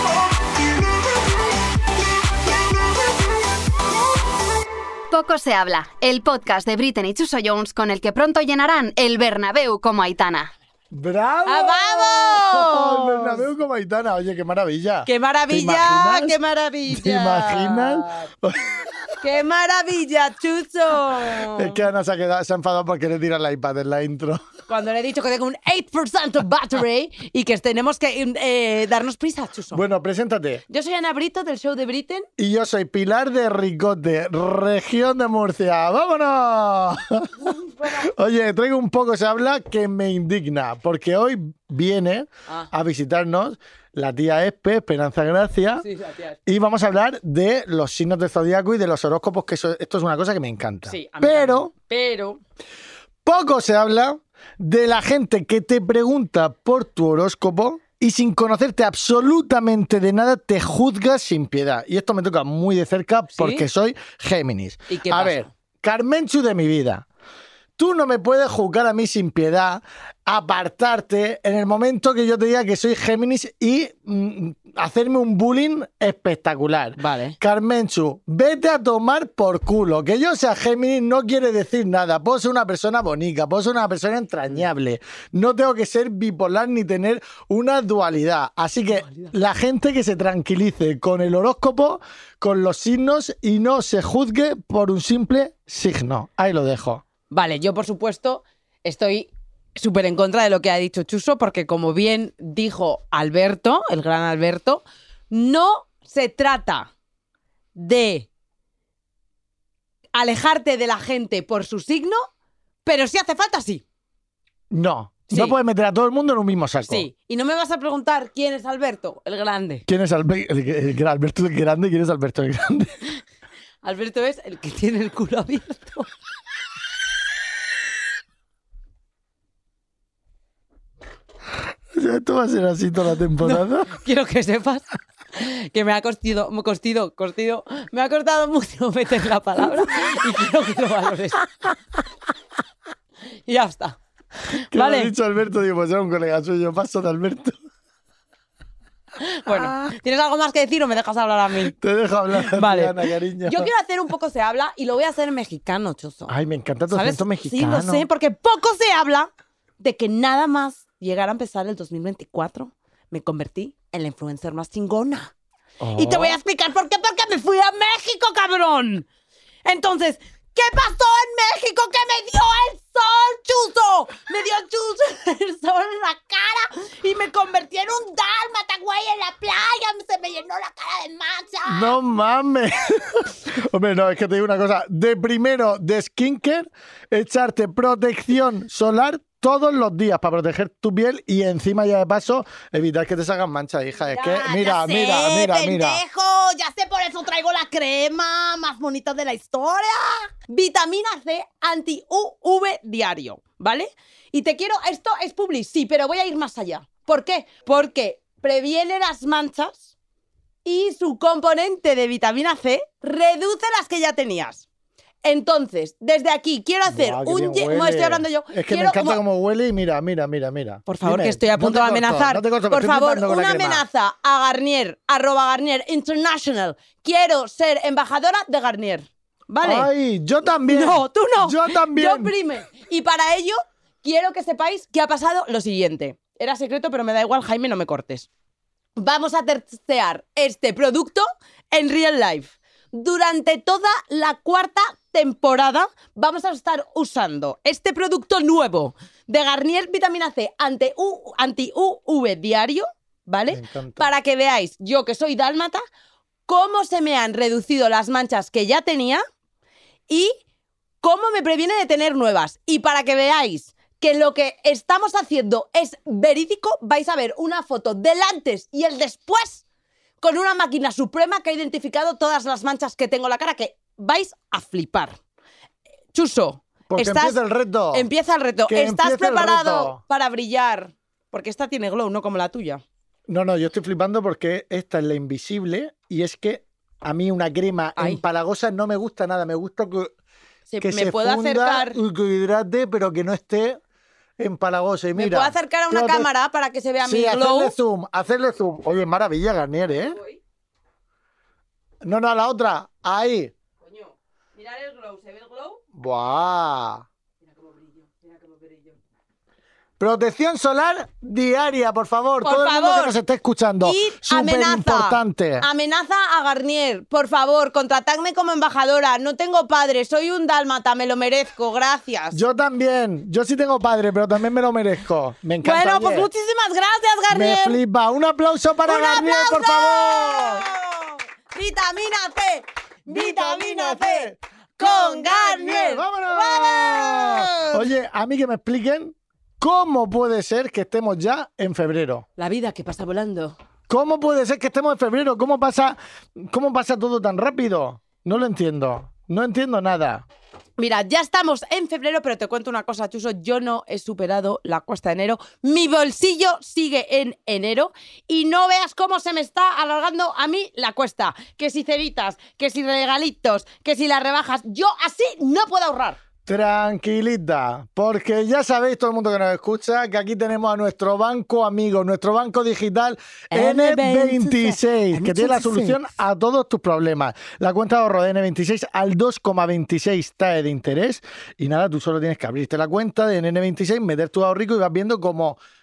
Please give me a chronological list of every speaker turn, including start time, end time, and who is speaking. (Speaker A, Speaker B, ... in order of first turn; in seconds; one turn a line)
Speaker A: 5.1-10.5
Speaker B: 10.9-18.8
Speaker C: 11.4-13.4
Speaker C: 15.1-18.2
Speaker C: 19.2-21.8
Speaker B: 21.5-24.4
Speaker C: 24.7-29.8
Speaker B: 29.7-30.6
Speaker C: 30.7-32.3
Speaker B: 32.4-37.3
Speaker C: 37.4-38.1
Speaker B: 37.8-45.9
Speaker C: 45.8-46.4
Speaker B: 46.5-51.7
Speaker C: 50.9-52.4
Speaker B: 53.2-67.0
Speaker C: 63.3-63.6
Speaker C: 64.9-65.5
Speaker B: 67.8-97.0
Speaker C: 77.0-77.4
Speaker C: 89.0-89.3
Speaker C: 97.3-106.9
Speaker C: 107.8-108.3
Speaker C: 110.1-112.3
Speaker C: 112.8-113.8
Speaker B: 114.7-117.1
Speaker C: 115.3-115.5
Speaker C: 116.9-119.8
Speaker B: 119.9-123.0
Speaker C: 123.8-126.1
Speaker B: 131.9-134.0
Speaker C: 133.4-141.5
Speaker C: 143.5-144.0
Speaker C: 144.5-145.1
Speaker B: 144.7-147.6
Speaker C: 149.2-151.7
Speaker B: 149.5-149.7
Speaker B: 151.7-153.7
Speaker C: 152.3-156.3
Speaker B: 156.3-158.1
Speaker C: 156.9-165.3
Speaker B: 165.8-166.4
Speaker C: 165.9-169.1
Speaker C: 169.6-181.9
Speaker B: 181.7-196.0
Speaker C: 194.0-209.9
Speaker C: 210.6-214.6
Speaker C: 215.2-219.2
Speaker B: 216.9-223.8
Speaker C: 220.9-229.9
Speaker B: 229.6-232.3
Speaker C: 230.5-238.3
Speaker C: 239.0-255.8
Speaker B: 253.5-254.1
Speaker C: 256.5-259.2
Speaker C: 260.1-260.3
Speaker C: 261.0-269.6
Speaker C: 270.2-275.1
Speaker C: 276.1-277.4
Speaker B: 276.9-278.1
Speaker C: 277.9-282.8
Speaker B: 278.7-280.0
Speaker B: 283.3-290.1
Speaker C: 290.7-292.0
Speaker B: 290.8-293.8
Speaker B: 294.4-296.3
Speaker C: 295.1-297.7
Speaker B: 297.0-300.2
Speaker C: 299.9-300.4
Speaker B: 302.0-303.5
Speaker C: 303.8-305.8
Speaker B: 305.9-307.1
Speaker C: 307.4-308.9
Speaker B: 310.0-315.7
Speaker C: 312.4-313.2
Speaker C: 313.8-322.4
Speaker B: 322.3-326.3
Speaker C: 325.6-327.8
Speaker B: 327.3-330.7
Speaker C: 328.9-337.9
Speaker B: 333.1-342.3
Speaker C: 342.4-343.6
Speaker B: 343.9-350.2
Speaker C: 350.8-366.2
Speaker B: 366.4-385.6
Speaker C: 373.5-376.0